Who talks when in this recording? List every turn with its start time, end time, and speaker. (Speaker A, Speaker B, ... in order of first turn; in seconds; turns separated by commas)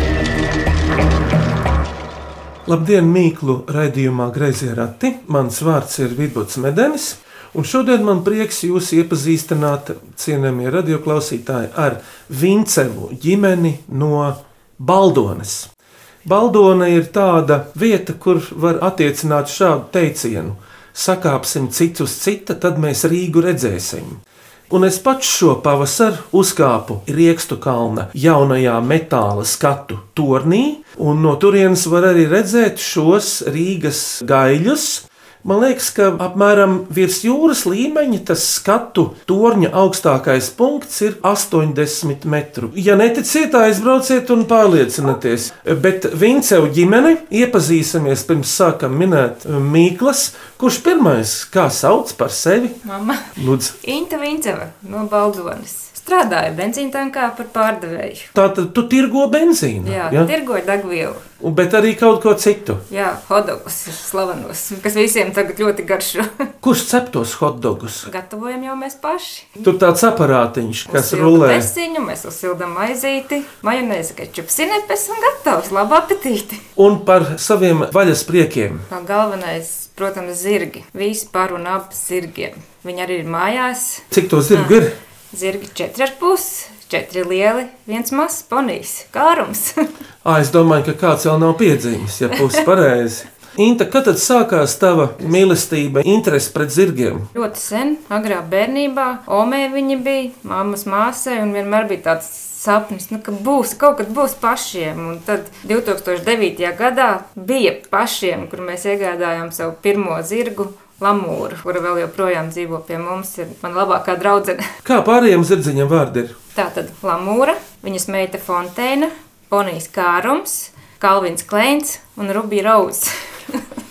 Speaker A: 2.7-15.7, Speaker A: 16.2-52.8, Speaker B: 52.9-53.3, Speaker A: 53.4-53.8, Speaker B: 53.8-58.3, Speaker A: 58.4-60.3, Speaker B: 59.9-61.2, Speaker A: 61.4-62.8, Speaker B: 62.9-66.4, Speaker A: 66.6-68.1, Speaker B: 68.0-69.6, Speaker A: 69.6-71.7, Speaker B: 70.9-76.6, Speaker A: 76.8-78.9, Speaker B: 78.9-84.8, Speaker A: 84.1-84.9, Speaker B: 85.3-89.8, Speaker A: 90.2-97.3, Speaker B: 97.3-114.7, Speaker A: 114.8-116.4, Speaker B: 116.5-123.6